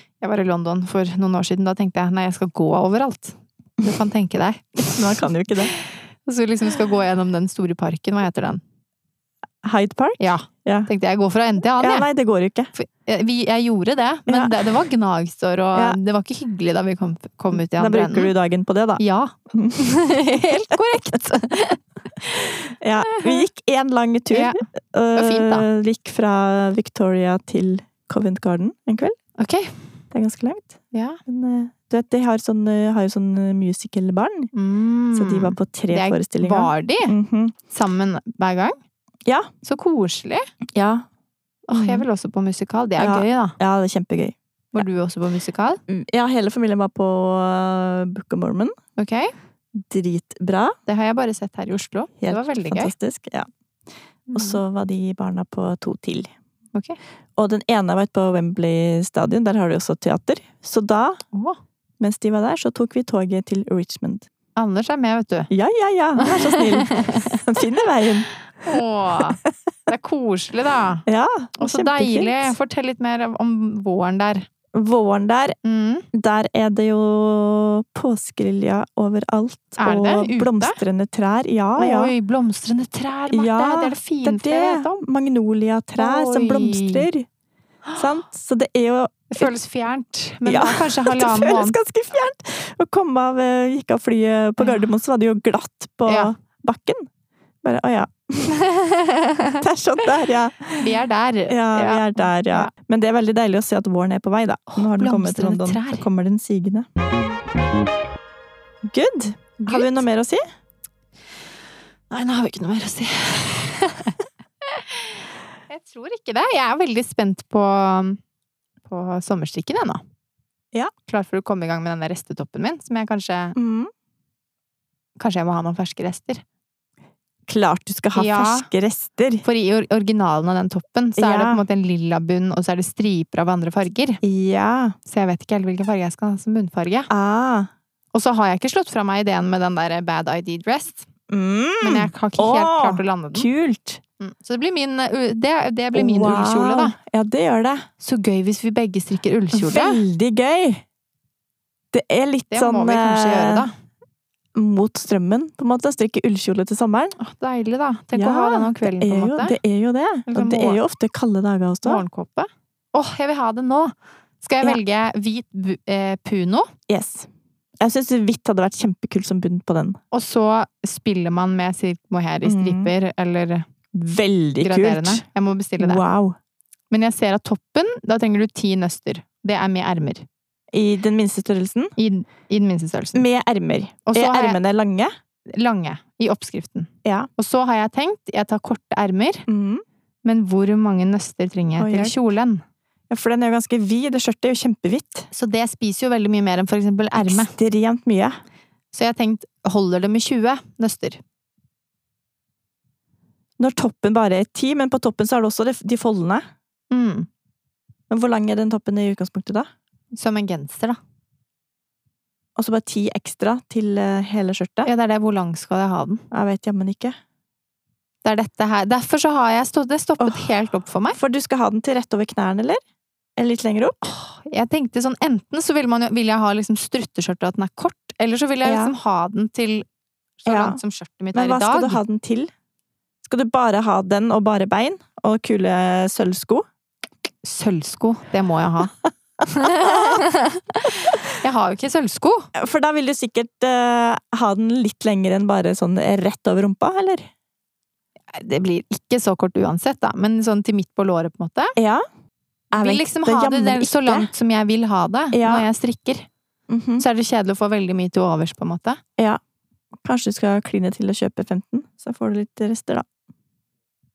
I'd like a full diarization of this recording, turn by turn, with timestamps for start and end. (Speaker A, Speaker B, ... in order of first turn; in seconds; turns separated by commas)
Speaker A: 0.2-8.6, Speaker B: 4.8-5.7, Speaker B: 9.6-10.9, Speaker A: 10.2-12.1, Speaker B: 11.8-12.7, Speaker A: 12.8-18.3, Speaker B: 14.3-14.7, Speaker B: 17.5-19.0, Speaker A: 19.0-23.4, Speaker B: 19.5-20.2, Speaker B: 22.7-29.1, Speaker A: 24.3-25.7, Speaker A: 29.4-29.8, Speaker B: 30.1-34.5, Speaker A: 30.9-31.2, Speaker A: 34.5-37.1, Speaker B: 35.1-37.5, Speaker A: 37.7-38.8, Speaker A: 39.6-40.5, Speaker B: 40.7-41.1, Speaker A: 41.7-43.5, Speaker B: 41.7-42.1, Speaker B: 43.0-44.8, Speaker A: 44.7-45.8, Speaker B: 45.9-48.8, Speaker A: 49.0-49.3, Speaker B: 49.7-50.8, Speaker A: 50.9-52.9, Speaker B: 52.2-53.5, Speaker A: 54.3-54.6, Speaker B: 54.4-56.3, Speaker B: 57.4-61.2, Speaker A: 61.3-61.6, Speaker B: 62.0-64.3, Speaker A: 64.6-65.5, Speaker B: 65.5-68.3, Speaker A: 66.2-67.4, Speaker A: 68.6-71.0, Speaker B: 69.2-69.5, Speaker B: 71.1-72.5, Speaker A: 71.6-74.5, Speaker B: 74.7-75.6, Speaker A: 75.6-76.1, Speaker B: 76.1-82.1, Speaker A: 79.8-80.8, Speaker A: 81.8-85.0, Speaker B: 83.3-87.3, Speaker A: 86.0-87.1, Speaker A: 87.9-88.2, Speaker B: 88.0-89.6, Speaker A: 89.3-91.8, Speaker B: 90.5-97.1, Speaker A: 94.6-94.9, Speaker A: 96.1-96.3, Speaker B: 97.6-98.6, Speaker A: 98.6-99.6, Speaker B: 99.6-100.9, Speaker A: 100.8-102.7, Speaker B: 101.5-106.9, Speaker A: 104.7-106.0, Speaker B: 108.8-110.4, Speaker A: 109.6-110.0, Speaker A: 112.1-118.2, Speaker A: 118.9-120.0, Speaker A: 121.1-123.5, Speaker B: 123.6-123.9, Speaker A: 125.2-126.4, Speaker B: 127.5-129.4, Speaker A: 128.2-128.7, Speaker A: 129.4-134.2, Speaker B: 131.2-131.6, Speaker B: 134.2-134.9, Speaker A: 135.1-137.1, Speaker B: 137.1-137.7, Speaker A: 138.1-141.1, Speaker B: 141.3-144.0, Speaker A: 141.8-143.5, Speaker A: 144.2-146.9, Speaker B: 145.9-147.9, Speaker A: 148.0-150.0, Speaker B: 149.5-150.8, Speaker B: 151.9-153.7, Speaker A: 152.5-153.7, Speaker B: 154.6-157.2, Speaker A: 157.2-159.6, Speaker B: 158.2-162.0, Speaker A: 160.3-160.8, Speaker A: 161.8-166.7, Speaker B: 166.9-167.3, Speaker B: 167.8-170.0, Speaker A: 170.1-173.7, Speaker B: 172.4-172.9, Speaker B: 173.9-175.2, Speaker A: 174.6-176.0, Speaker B: 175.8-176.4, Speaker A: 176.9-180.3, Speaker B: 180.7-181.9, Speaker A: 182.0-183.2, Speaker B: 183.1-185.1, Speaker A: 184.1-184.6, Speaker A: 185.5-189.5, Speaker B: 189.5-189.8, Speaker A: 190.2-192.6, Speaker B: 191.8-192.2, Speaker B: 193.1-195.3, Speaker A: 195.3-197.5, Speaker B: 197.2-198.4, Speaker A: 198.9-201.2, Speaker B: 203.6-206.4, Speaker A: 206.9-207.3, Speaker B: 208.1-209.7, Speaker A: 210.2-211.0, Speaker B: 212.6-214.9, Speaker A: 214.8-216.2, Speaker B: 216.3-217.2, Speaker A: 218.2-221.2, Speaker B: 220.2-220.5, Speaker B: 221.1-222.8, Speaker B: 223.4-224.0, Speaker A: 224.0-229.9, Speaker B: 228.6-228.9, Speaker A: 230.4-232.0, Speaker B: 230.5-230.8, Speaker B: 231.3-232.5, Speaker B: 233.2-236.7, Speaker A: 237.4-242.5, Speaker B: 239.6-240.2, Speaker B: 242.6-247.3, Speaker A: 248.3-251.8, Speaker B: 251.8-252.1, Speaker B: 252.7-254.3, Speaker A: 252.7-256.3, Speaker B: 255.3-255.7, Speaker B: 256.7-257.1, Speaker A: 257.0-259.0, Speaker B: 260.0-263.1